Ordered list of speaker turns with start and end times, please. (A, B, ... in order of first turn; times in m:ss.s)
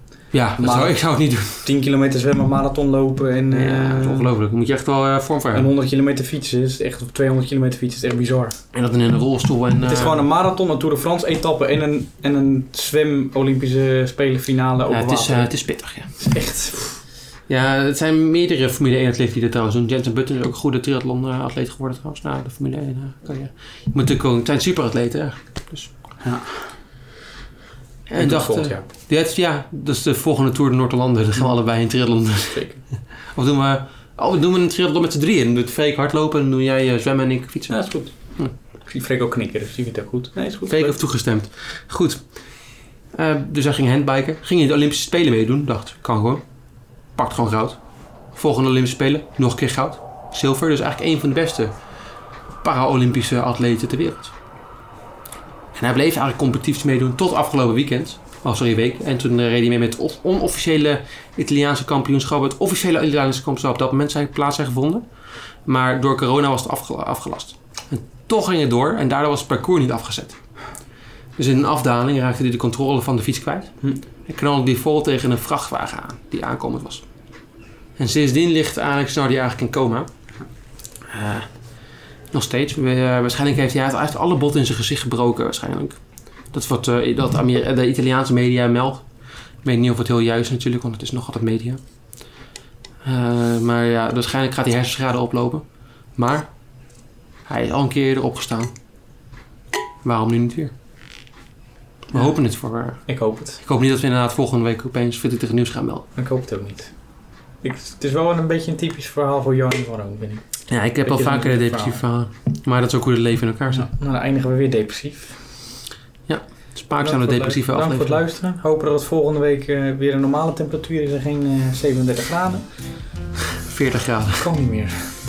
0:00.3-0:01.7 A
0:00.6-0:04.3 B
0:03.5-0:05.7 A
0:05.5-0:08.6 B
0:08.7-0:10.2 A
0:09.8-0:15.5 B
0:14.9-0:16.1 A
0:16.2-0:17.0 B
0:17.5-0:25.9 A
0:26.2-0:26.7 B
0:28.1-0:32.6 A
0:28.2-0:28.8 B
0:32.5-0:32.8 B
0:33.3-0:37.8 A
0:37.7-0:38.2 B
0:38.8-0:41.0 B
0:40.7-0:42.2 A
0:43.1-0:46.4 A
0:47.2-0:47.8 A
0:48.3-0:51.7 A
0:52.6-0:54.3 A
0:55.8-1:05.0 A
1:05.7-1:10.4 A
1:11.4-1:17.0 A
1:18.0-1:20.1 A
1:21.1-1:21.5 A
1:22.3-1:26.0 A
1:26.5-1:29.0 A
1:29.6-1:31.8 A
1:33.0-1:35.6 A
1:36.2-1:36.5 A
1:37.5-1:38.7 A
1:40.0-1:40.7 A
1:42.1-1:46.1 A
1:43.1-1:43.6 B
1:46.2-1:46.9 B
1:47.6-1:50.5 B
1:50.7-1:53.9 A
1:51.0-1:52.0 B
1:53.7-1:55.4 B
1:56.3-1:58.2 A
1:57.0-2:02.6 B
2:03.6-2:04.5 A
2:04.4-2:05.2 B